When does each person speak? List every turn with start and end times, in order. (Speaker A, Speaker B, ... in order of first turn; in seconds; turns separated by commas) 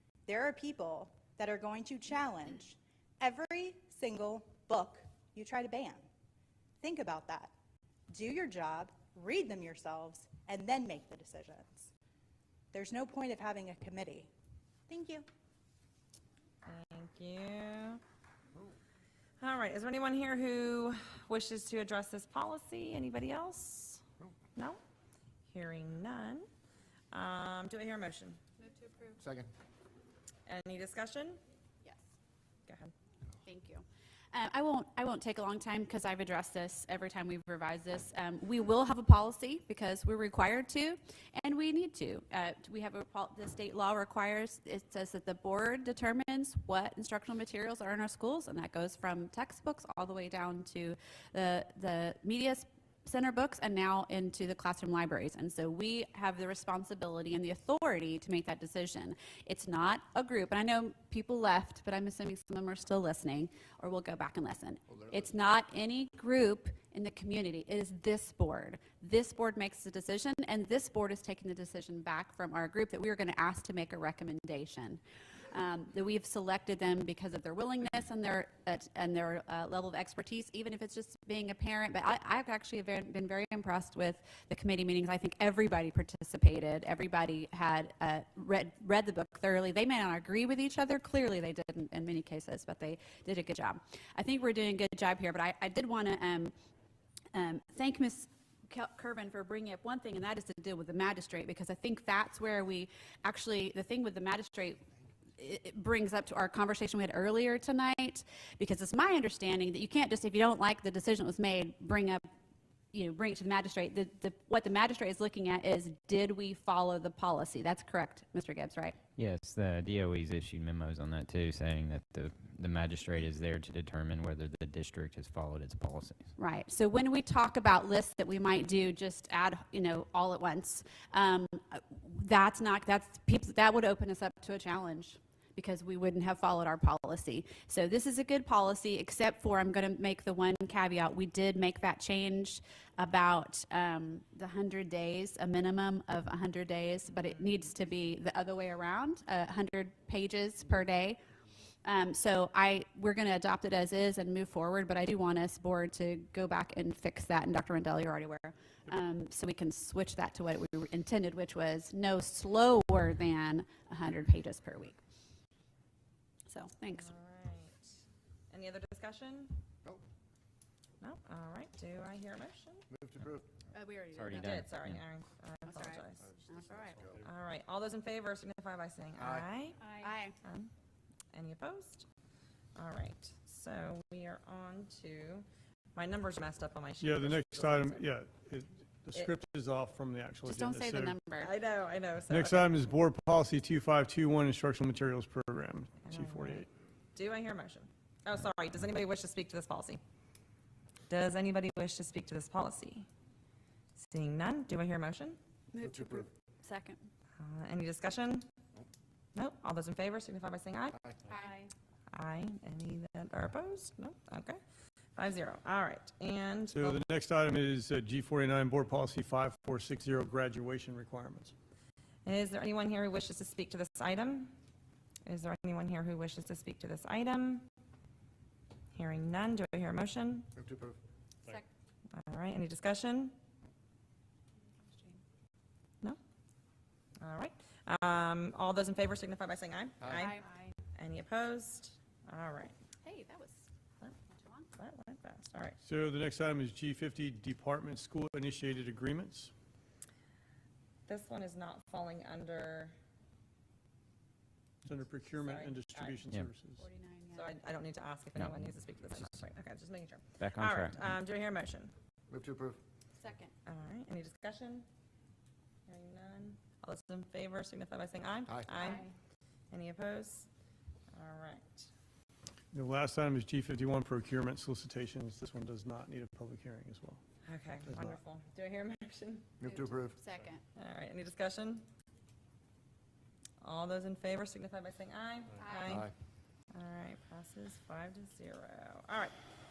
Speaker A: 0.2-6.1, Speaker A: 6.8-7.5, Speaker A: 8.1-11.9, Speaker A: 12.7-14.3, Speaker A: 14.9-15.3, Speaker B: 16.6-18.0, Speaker B: 19.4-24.0, Speaker B: 25.5-26.4, Speaker B: 27.1-28.4, Speaker C: 29.2-29.5, Speaker B: 30.5-31.4, Speaker B: 32.7-32.9, Speaker D: 33.4-96.5, Speaker D: 97.3-104.8, Speaker D: 105.4-112.2, Speaker D: 112.9-119.0, Speaker E: 119.2-126.2, Speaker D: 126.4-151.2, Speaker D: 151.8-165.0, Speaker D: 166.5-167.1, Speaker B: 167.0-167.8, Speaker B: 168.5-169.6, Speaker B: 171.0-172.8, Speaker C: 172.9-173.6, Speaker D: 173.7-174.5, Speaker E: 174.1-175.0, Speaker B: 174.3-176.2, Speaker D: 175.7-177.0, Speaker C: 176.4-177.2, Speaker B: 177.2-179.8, Speaker C: 179.2-179.5, Speaker D: 179.8-180.3, Speaker B: 180.4-180.7, Speaker B: 181.3-182.0, Speaker B: 182.8-188.1, Speaker F: 187.0-191.2, Speaker D: 190.4-191.5, Speaker B: 191.4-192.7, Speaker F: 192.3-196.7, Speaker B: 196.0-200.0, Speaker B: 201.1-203.1, Speaker B: 204.0-205.4, Speaker D: 205.7-207.1, Speaker C: 205.8-206.3, Speaker B: 207.4-208.4, Speaker B: 209.3-211.0, Speaker D: 211.3-211.7, Speaker B: 212.1-214.6, Speaker B: 215.2-217.0, Speaker F: 216.7-221.5, Speaker B: 222.2-224.5, Speaker B: 225.2-227.7, Speaker B: 228.9-230.5, Speaker C: 230.5-231.0, Speaker B: 232.1-233.4, Speaker D: 234.8-235.2, Speaker B: 237.2-240.4, Speaker D: 240.2-240.7, Speaker B: 240.9-242.7, Speaker D: 243.0-243.7, Speaker D: 244.3-244.7, Speaker B: 244.8-245.8, Speaker F: 245.8-249.5, Speaker B: 251.1-252.9, Speaker F: 254.8-256.8, Speaker B: 255.4-256.2, Speaker D: 256.8-257.5, Speaker B: 257.3-261.9, Speaker E: 258.4-258.7, Speaker E: 260.4-261.1, Speaker C: 262.3-262.8, Speaker D: 263.2-263.5, Speaker B: 263.6-264.9, Speaker B: 265.9-269.0, Speaker D: 268.8-269.1, Speaker B: 269.7-270.5, Speaker B: 271.1-271.9, Speaker F: 272.7-277.2, Speaker B: 277.4-279.5, Speaker F: 277.9-278.2, Speaker C: 279.6-280.2, Speaker D: 279.6-280.6, Speaker B: 280.8-281.9, Speaker B: 283.6-286.1, Speaker D: 285.6-285.9, Speaker C: 285.9-286.1, Speaker B: 286.7-289.3